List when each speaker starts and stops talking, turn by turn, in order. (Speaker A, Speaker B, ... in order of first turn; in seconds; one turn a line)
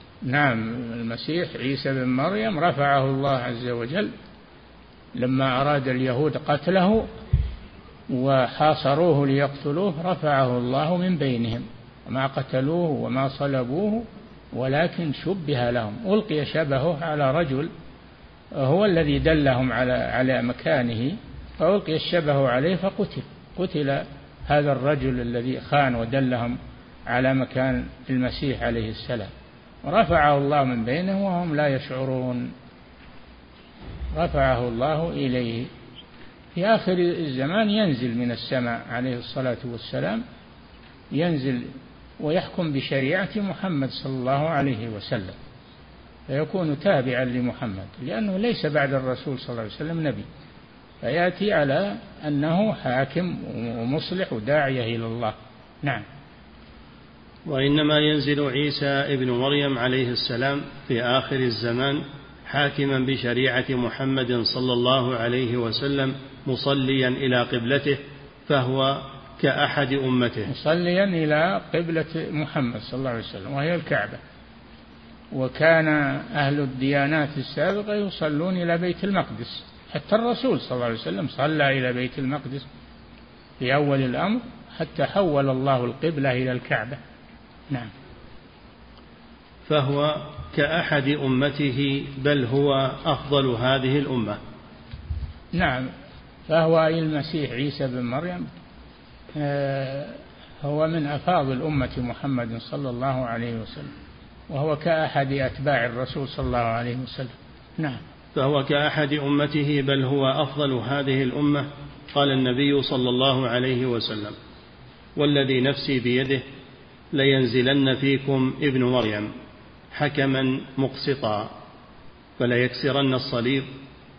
Speaker A: 0.3-4.1
Speaker A: 5.2-7.1
Speaker A: 8.1-17.7
Speaker A: 18.6-29.3
Speaker A: 29.9-32.5
Speaker A: 34.1-35.7
Speaker A: 36.5-40.2
Speaker A: 41.1-45.4
Speaker A: 46.3-50.3
Speaker A: 51.0-56.0
Speaker B: 57.5-70.5
Speaker A: 70.5-74.2
Speaker A: 75.3-82.7
Speaker A: 83.6-87.0
Speaker B: 89.7-94.4
Speaker A: 95.5-95.9
Speaker A: 96.5-98.5
Speaker A: 99.3-103.9
Speaker A: 104.5-108.0
Speaker B: 108.3-114.4
Speaker B: 115.2-116.4
Speaker B: 117.1-119.3
Speaker B: 119.9-121.5
Speaker B: 122.4-123.7